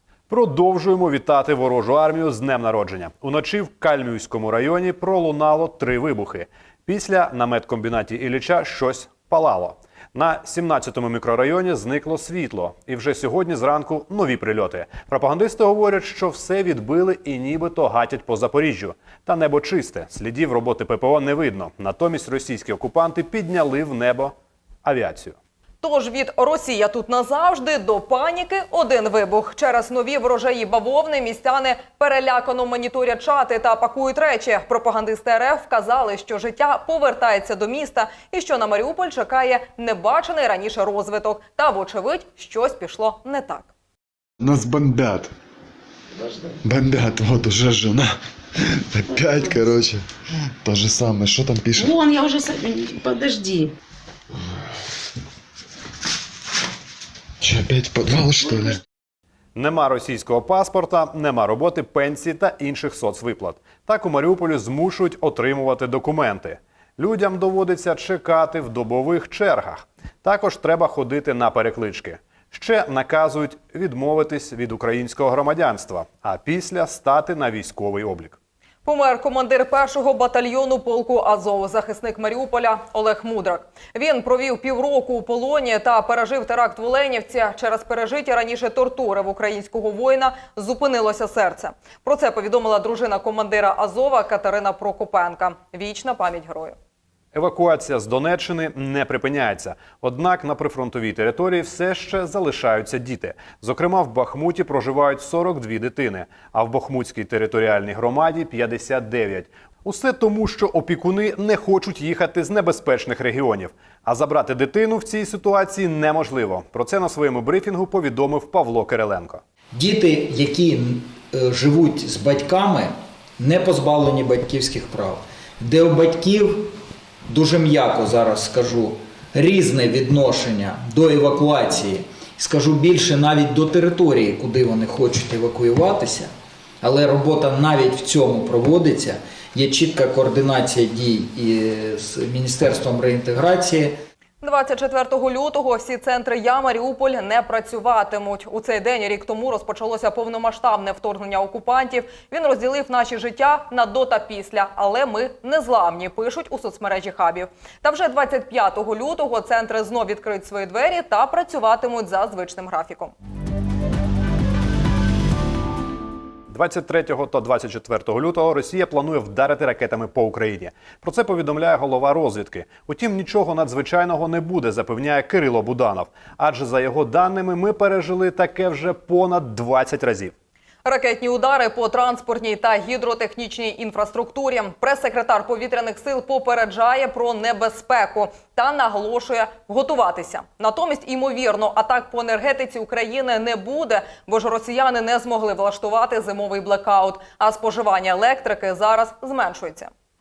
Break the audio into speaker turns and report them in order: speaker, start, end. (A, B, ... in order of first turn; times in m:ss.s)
0:00.3-0:25.4 A
0:25.8-0:43.7 B
0:44.4-0:45.3 C
0:46.6-0:48.2 C
0:48.8-0:50.0 C
0:50.6-0:52.0 C
0:51.8-0:53.7 D
0:57.4-0:58.8 C
0:59.6-1:18.4 A
1:18.8-1:36.8 B
1:37.3-1:59.4 A
1:59.8-2:06.7 E
2:07.3-2:16.3 E
2:16.8-2:24.0 E
2:24.4-2:43.1 B
2:46.5-3:00.3 A
3:00.8-3:19.9 B